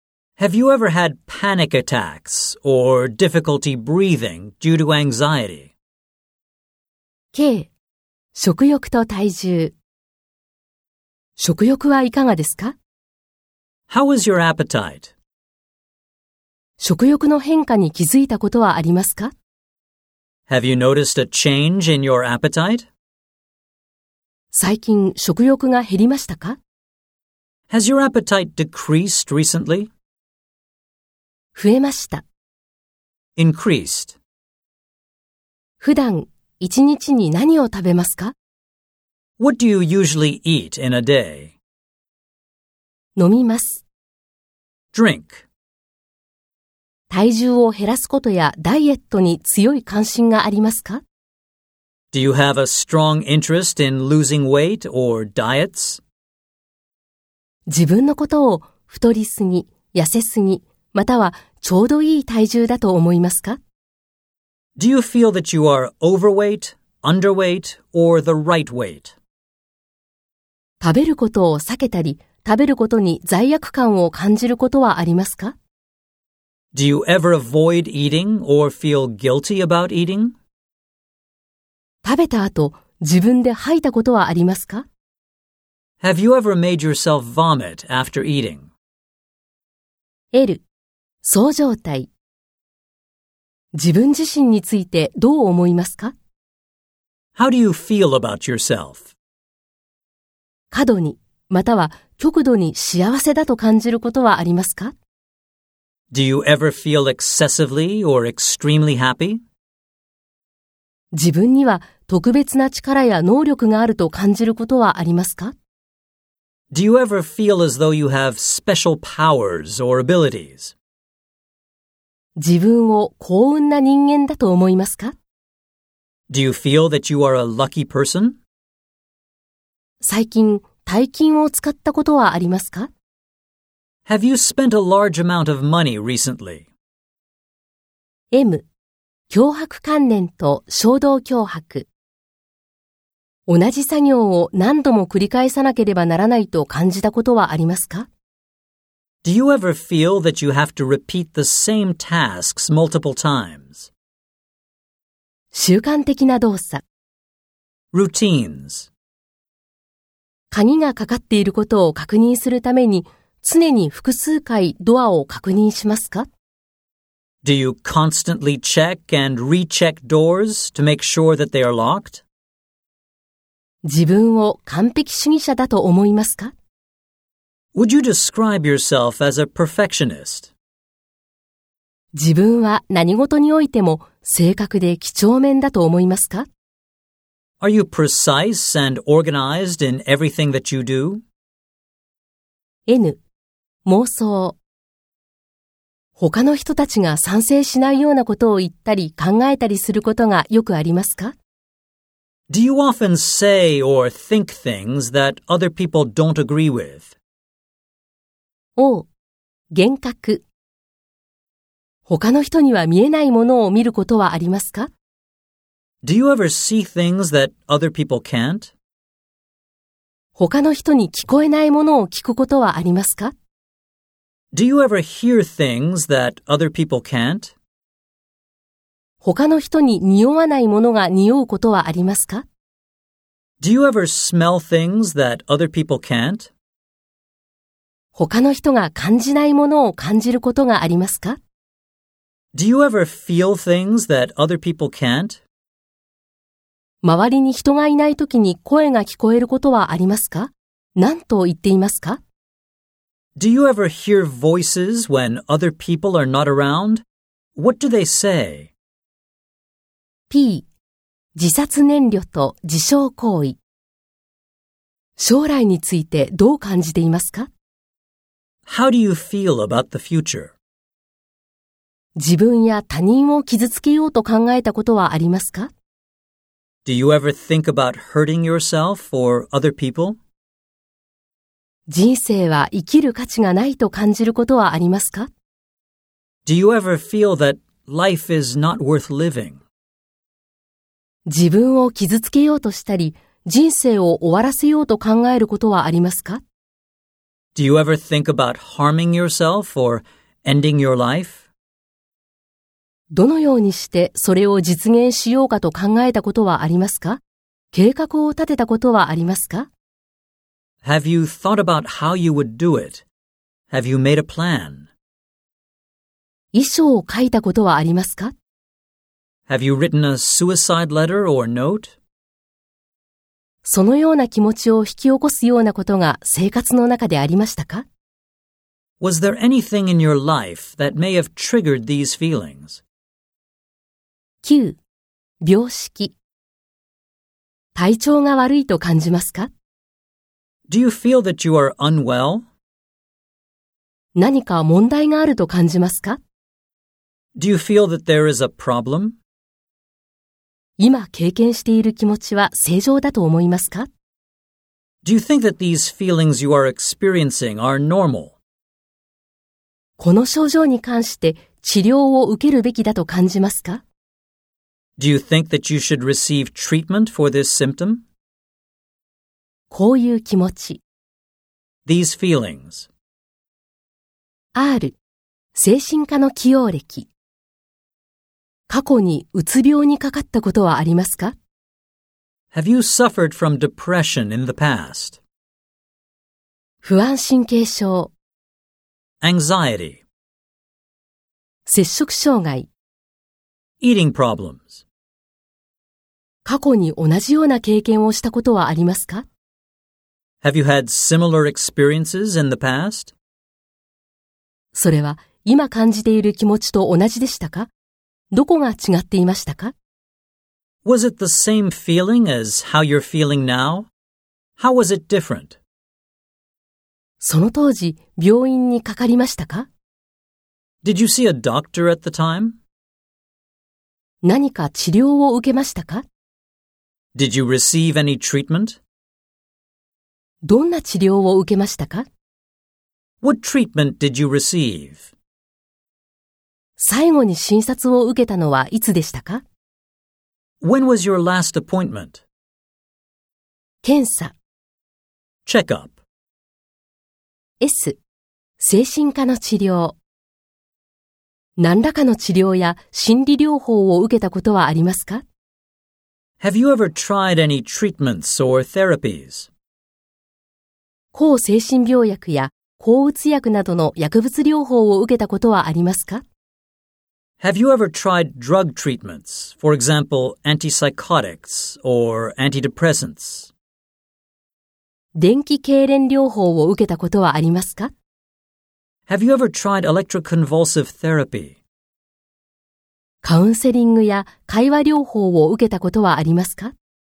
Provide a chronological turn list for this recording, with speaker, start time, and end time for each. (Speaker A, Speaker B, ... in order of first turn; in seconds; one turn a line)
Speaker A: 0.4-5.7
Speaker B: 7.3-7.7
Speaker B: 8.3-9.8
Speaker B: 11.4-12.8
Speaker A: 13.9-15.1
Speaker B: 16.8-19.3
Speaker A: 20.5-22.9
Speaker B: 24.5-26.6
Speaker A: 27.7-29.9
Speaker B: 31.6-32.2
Speaker A: 33.4-34.2
Speaker B: 35.8-38.4
Speaker A: 39.4-41.6
Speaker B: 43.2-43.9
Speaker A: 44.9-45.5
Speaker B: 47.1-51.0
Speaker A: 52.1-56.0
Speaker B: 57.7-63.6
Speaker A: 64.8-69.2
Speaker B: 70.8-75.5
Speaker A: 76.7-80.3
Speaker B: 82.0-84.9
Speaker A: 86.0-88.7
Speaker B: 90.3-90.6
Speaker B: 91.2-92.1
Speaker B: 93.7-96.1
Speaker A: 97.3-99.1
Speaker B: 100.7-104.9
Speaker A: 106.1-109.4
Speaker B: 111.1-115.5
Speaker A: 116.7-120.8
Speaker B: 122.4-125.2
Speaker A: 126.3-128.4
Speaker B: 130.0-132.9
Speaker A: 134.1-136.7
Speaker B: 138.3-138.7
Speaker B: 139.3-141.9
Speaker B: 143.5-148.1
Speaker A: 149.2-153.9
Speaker B: 155.5-156.8
Speaker A: 157.9-158.9
Speaker B: 160.5-166.3
Speaker A: 167.4-172.2
Speaker B: 173.8-176.5
Speaker A: 177.7-180.5
Speaker B: 182.1-186.5
Speaker A: 187.6-191.2
Speaker B: 192.9-193.2
Speaker B: 193.8-194.6
Speaker B: 196.2-201.3
Speaker A: 202.5-207.1
Speaker B: 208.8-209.1
Speaker B: 209.7-210.5
Speaker B: 212.1-214.9
Speaker A: 216.0-218.7
Speaker B: 220.4-223.3
Speaker A: 224.5-227.6
Speaker B: 229.2-232.4
Speaker A: 233.6-236.5
Speaker B: 238.2-241.4
Speaker A: 242.5-245.4
Speaker B: 247.0-252.2
Speaker A: 253.4-257.1
Speaker A: 257.6-258.7
Speaker B: 260.3-260.7
Speaker B: 261.4-263.6
Speaker B: 265.2-267.5
Speaker A: 268.7-270.5
Speaker B: 272.2-275.7
Speaker A: 276.9-280.2
Speaker B: 281.9-285.3
Speaker A: 286.5-289.6
Speaker B: 291.3-296.4
Speaker A: 297.6-301.5
Speaker B: 303.1-307.2
Speaker B: 307.7-309.7
Speaker A: 310.8-313.1
Speaker A: 313.7-314.9
Speaker B: 316.5-318.3
Speaker A: 319.5-322.0
Speaker B: 323.6-327.9
Speaker A: 329.0-332.8
Speaker B: 334.4-334.8
Speaker B: 335.4-336.1
Speaker B: 337.8-339.5
Speaker A: 340.7-342.5
Speaker B: 344.2-346.2
Speaker A: 347.4-349.2
Speaker B: 350.8-353.9
Speaker A: 355.0-358.4
Speaker B: 360.0-363.8
Speaker A: 365.0-368.0
Speaker B: 369.7-370.8
Speaker A: 371.9-372.9
Speaker B: 374.6-375.0
Speaker B: 375.6-377.1
Speaker B: 378.7-381.4
Speaker A: 382.5-385.2
Speaker B: 386.8-388.1
Speaker A: 389.2-390.0
Speaker B: 391.7-392.7
Speaker A: 393.8-394.9
Speaker B: 396.4-399.3
Speaker A: 400.4-403.1
Speaker B: 404.7-407.7
Speaker B: 408.3-409.7
Speaker A: 410.9-413.9
Speaker A: 414.6-415.6
Speaker B: 417.2-419.7
Speaker A: 420.8-422.6
Speaker B: 424.2-426.1
Speaker A: 427.2-428.8
Speaker B: 430.4-432.1
Speaker A: 433.2-435.1
Speaker B: 436.8-439.4
Speaker A: 440.6-442.2
Speaker B: 443.8-444.4
Speaker A: 445.5-446.0
Speaker B: 447.6-448.0
Speaker B: 448.6-450.0
Speaker B: 451.6-455.2
Speaker A: 456.4-459.5
Speaker B: 461.1-466.2
Speaker A: 467.4-473.5
Speaker B: 475.2-477.9
Speaker A: 479.1-481.6
Speaker B: 483.2-486.7